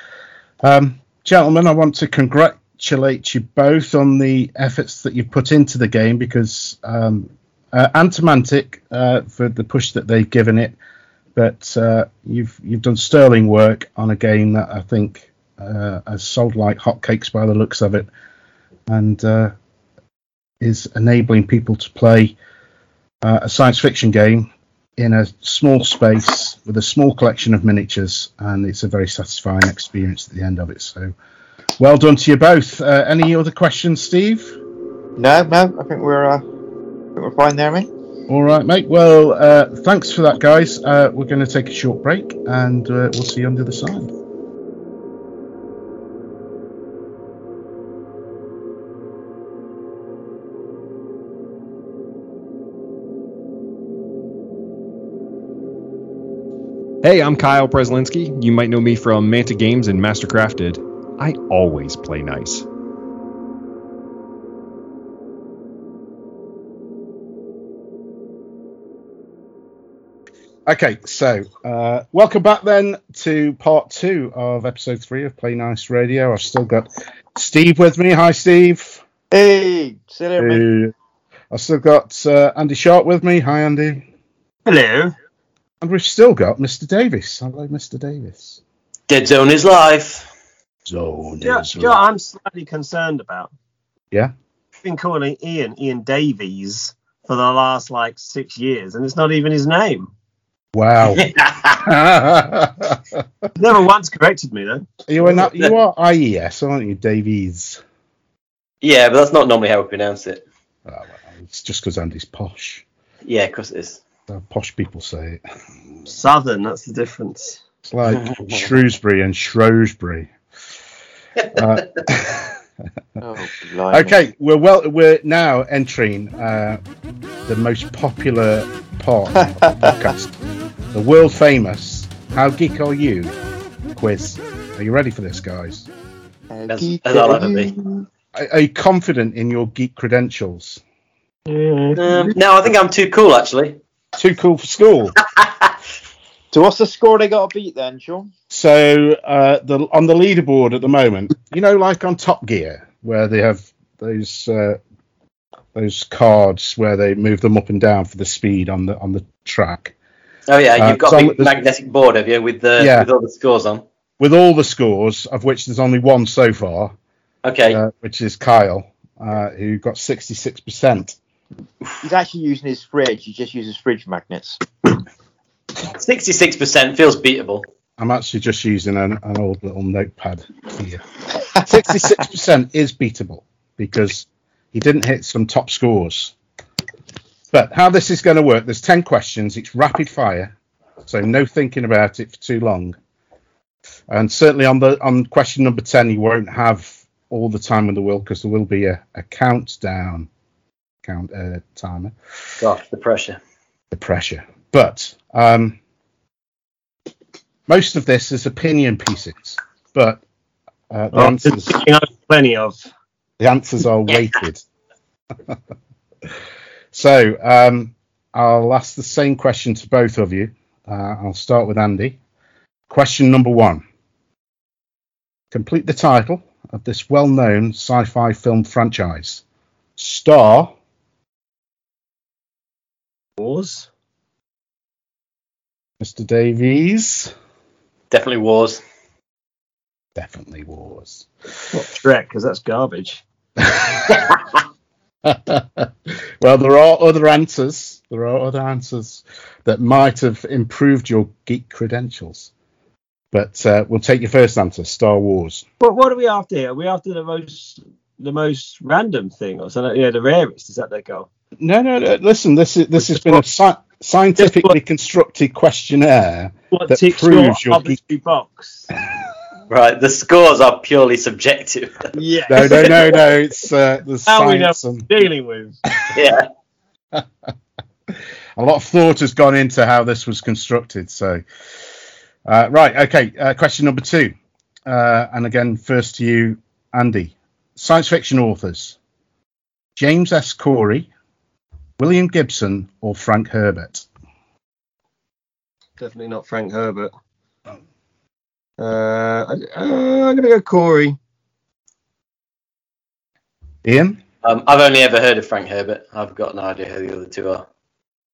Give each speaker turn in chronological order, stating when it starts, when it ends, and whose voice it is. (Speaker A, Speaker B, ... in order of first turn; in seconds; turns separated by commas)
Speaker A: 0.6-10.8, Speaker A: 11.3-18.1, Speaker A: 18.9-19.5, Speaker A: 20.6-22.4, Speaker A: 23.2-31.1, Speaker A: 31.8-34.6, Speaker B: 35.2-36.4, Speaker B: 37.1-37.9, Speaker A: 38.3-44.1, Speaker C: 57.0-62.6, Speaker A: 70.7-79.0, Speaker B: 79.3-80.6, Speaker A: 80.4-80.9, Speaker A: 81.5-84.0, Speaker D: 84.7-85.1, Speaker A: 85.8-88.6, Speaker E: 89.1-90.3, Speaker A: 90.8-92.0, Speaker D: 91.4-93.5, Speaker D: 94.8-100.1, Speaker A: 100.7-103.2, Speaker E: 101.1-101.8, Speaker D: 103.6-105.4, Speaker A: 105.1-107.8, Speaker E: 108.8-110.4, Speaker A: 110.8-112.8, Speaker E: 113.2-114.0, Speaker A: 114.3-115.4, Speaker D: 116.1-117.6, Speaker A: 117.8-120.3, Speaker E: 118.1-118.6, Speaker A: 121.5-122.6, Speaker B: 123.2-124.2, Speaker A: 123.9-126.8, Speaker A: 127.5-130.3, Speaker A: 130.9-133.3, Speaker A: 133.9-135.9, Speaker B: 136.5-138.1, Speaker E: 136.7-137.7, Speaker A: 138.3-140.8, Speaker D: 141.5-142.3, Speaker E: 141.9-143.8, Speaker A: 144.2-145.1, Speaker B: 146.5-148.3, Speaker A: 148.5-154.8, Speaker A: 155.7-159.9, Speaker E: 160.5-163.8, Speaker A: 160.8-161.5, Speaker A: 162.8-163.1, Speaker A: 164.2-166.9, Speaker E: 167.4-167.8, Speaker A: 167.7-171.2, Speaker B: 172.0-174.6, Speaker E: 175.9-177.7, Speaker A: 178.0-181.0, Speaker A: 181.5-186.3, Speaker A: 187.5-192.9, Speaker A: 194.1-200.3, Speaker A: 201.0-202.1, Speaker E: 202.6-203.4, Speaker A: 203.9-205.8, Speaker A: 207.7-210.2, Speaker A: 210.9-211.8, Speaker D: 211.1-212.8, Speaker A: 213.4-214.6, Speaker A: 216.9-222.2, Speaker A: 222.9-223.8, Speaker A: 225.5-229.4, Speaker A: 230.0-230.7, Speaker D: 233.4-233.9, Speaker A: 236.0-237.3, Speaker E: 238.1-238.8, Speaker A: 240.2-241.3, Speaker D: 241.7-243.2, Speaker A: 243.6-244.3, Speaker A: 245.2-252.5, Speaker A: 253.3-255.6, Speaker D: 255.8-261.3, Speaker A: 261.6-268.0, Speaker D: 263.0-263.5, Speaker D: 264.4-264.8, Speaker D: 266.7-268.9, Speaker E: 269.7-272.1, Speaker D: 272.1-273.3, Speaker A: 272.5-275.1, Speaker D: 274.2-275.8, Speaker E: 276.1-276.5, Speaker A: 278.1-281.4, Speaker A: 282.4-284.3, Speaker A: 284.9-289.0, Speaker A: 289.9-291.1, Speaker A: 292.0-294.1, Speaker D: 296.0-297.1, Speaker D: 298.8-301.2, Speaker A: 303.8-304.2, Speaker E: 304.4-307.6